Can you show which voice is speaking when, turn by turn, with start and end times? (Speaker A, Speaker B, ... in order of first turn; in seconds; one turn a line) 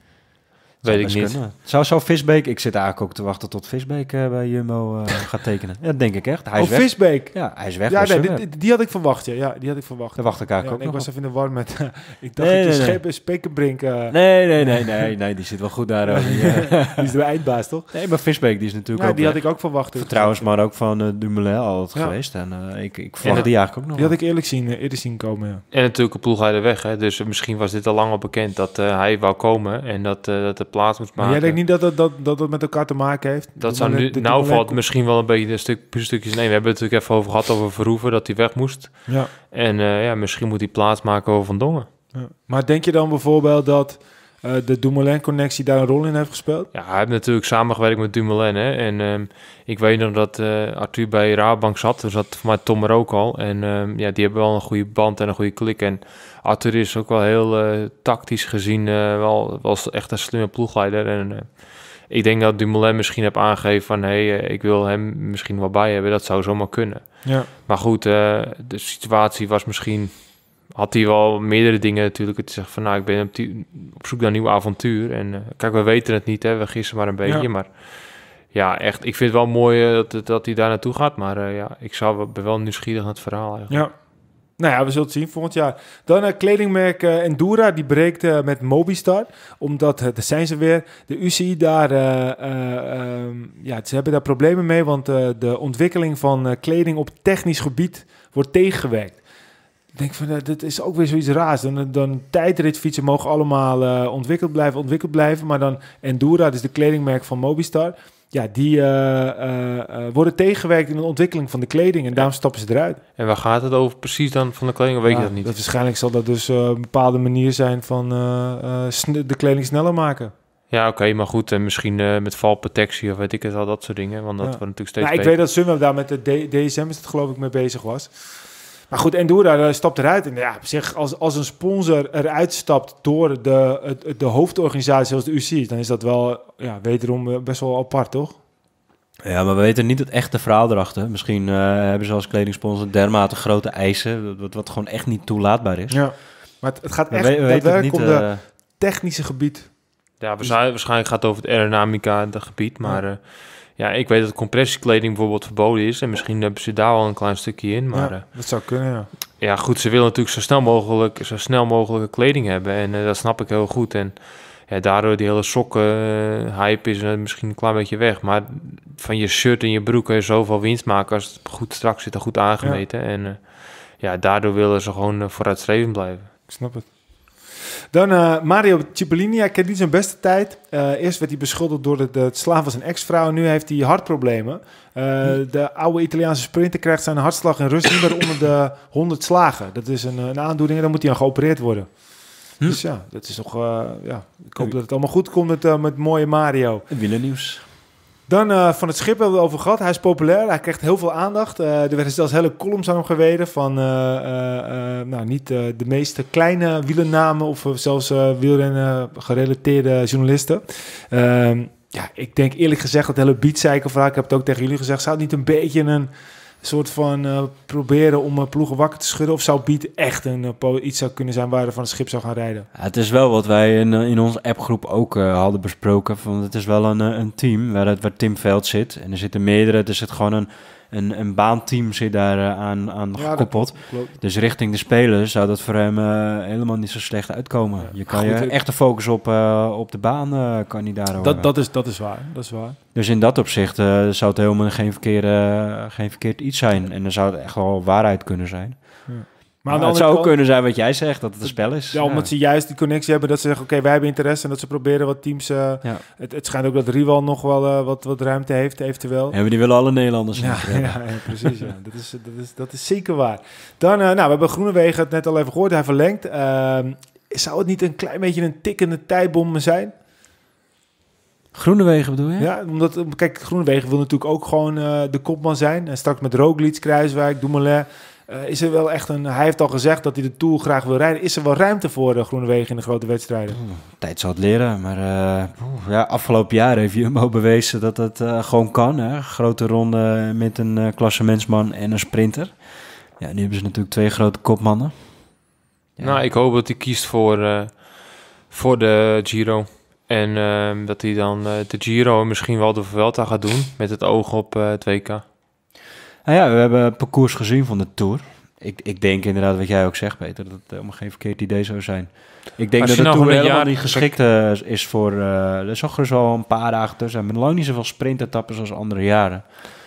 Speaker A: 0.8-8.4
Speaker B: 0.8-1.4
Speaker C: 6.6-15.1
Speaker A: 10.2-11.1
Speaker A: 12.4-13.0
Speaker A: 14.1-17.1
Speaker C: 16.1-17.9
Speaker A: 17.9-24.2
Speaker C: 18.9-20.5
Speaker C: 23.2-25.6
Speaker B: 25.7-31.6
Speaker C: 31.2-34.8
Speaker B: 33.6-41.9
Speaker C: 42.1-46.7
Speaker B: 46.7-83.9
Speaker C: 83.7-84.0
Speaker C: 84.6-99.2
Speaker C: 99.9-113.0
Speaker B: 113.2-115.5
Speaker C: 115.1-120.3
Speaker B: 120.7-125.4
Speaker C: 124.4-128.2
Speaker C: 128.9-138.4
Speaker A: 139.2-146.2
Speaker C: 145.9-149.7
Speaker A: 147.1-148.4
Speaker B: 150.2-158.2
Speaker C: 157.9-159.1
Speaker B: 159.4-176.5
Speaker C: 176.5-196.9
Speaker A: 196.9-197.6
Speaker C: 198.3-216.1
Speaker C: 216.6-222.7
Speaker A: 222.8-241.5
Speaker C: 233.2-234.2
Speaker C: 237.8-238.6
Speaker C: 241.2-242.8
Speaker A: 242.9-249.2
Speaker C: 249.1-250.4
Speaker A: 249.7-252.3
Speaker C: 251.4-259.4
Speaker A: 259.3-261.6
Speaker C: 260.4-269.9
Speaker A: 271.5-272.5
Speaker C: 272.4-283.6
Speaker A: 283.5-295.3
Speaker A: 296.0-296.2
Speaker B: 296.0-305.2
Speaker A: 306.2-319.4
Speaker B: 312.8-314.1